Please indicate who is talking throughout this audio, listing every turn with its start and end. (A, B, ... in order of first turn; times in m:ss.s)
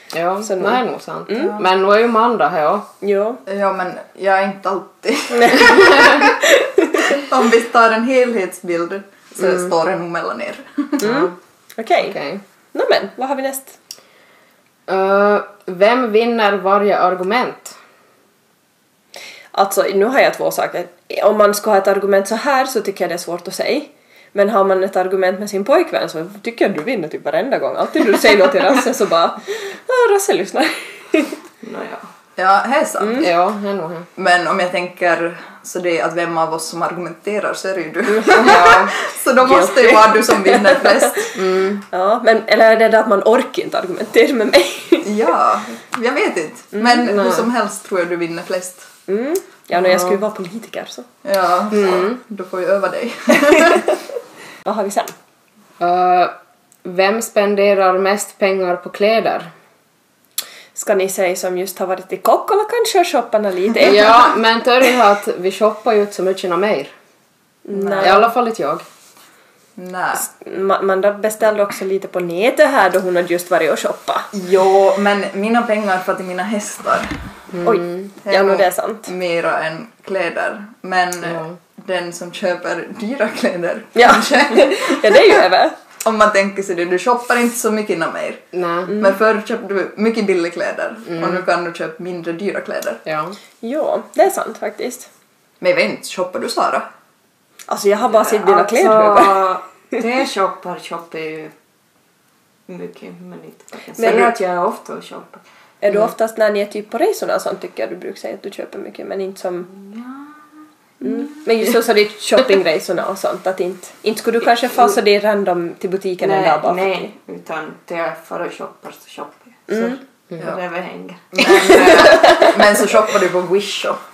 0:00.1-0:02.9 A
0:00.4-0:01.6 B
0:01.4-0:01.6 C
0:03.0-0:03.4 B
0:03.5-0:06.4 C
0:05.3-0:07.2 B
0:05.8-0:06.1 A
0:07.0-0:11.1 C
0:11.0-0:11.3 A
0:11.0-0:12.2 B
0:12.0-0:12.4 A
0:12.7-0:13.8 B
0:14.9-0:17.8 A
0:19.5-0:31.4 B
0:31.6-0:32.0 D
0:32.4-0:33.3 C
0:33.0-0:33.3 B
0:33.2-0:34.1 A
0:34.2-0:41.3 C
0:38.1-0:41.4 B
0:38.4-0:38.8 A
0:41.4-0:41.8 A
0:41.9-0:45.1 B
0:45.0-0:48.9 C
0:46.8-0:47.0 B
0:47.0-0:47.5 A
0:49.1-0:51.1 B
0:49.7-0:50.2 A
0:51.2-0:53.9 C
0:51.7-0:52.2 A
0:53.4-0:53.9 B
0:54.6-0:55.1 B
0:55.8-0:56.3 A
0:56.8-0:59.5 A
1:00.8-1:04.4 B
1:03.8-1:06.9 A
1:07.6-1:08.3 B
1:07.8-1:08.2 C
1:08.0-1:08.8 A
1:09.8-1:10.3 C
1:10.2-1:14.3 B
1:14.3-1:17.1 C
1:17.5-1:18.1 A
1:17.6-1:19.1 B
1:18.2-1:25.4 C
1:21.2-1:21.6 A
1:24.0-1:25.8 B
1:26.0-1:28.4 C
1:28.5-1:29.0 A
1:29.0-1:33.0 C
1:31.1-1:31.4 A
1:33.1-1:33.4 A
1:33.6-1:35.1 B
1:35.6-1:36.9 C
1:37.7-1:40.0 B
1:38.1-1:41.5 D
1:42.7-1:45.4 D
1:44.0-1:44.3 B
1:45.8-1:49.7 B
1:49.7-1:51.4 D
1:51.0-1:57.1 B
1:56.2-2:01.6 D
1:59.7-2:00.0 B
2:01.3-2:04.0 C
2:01.6-2:02.6 B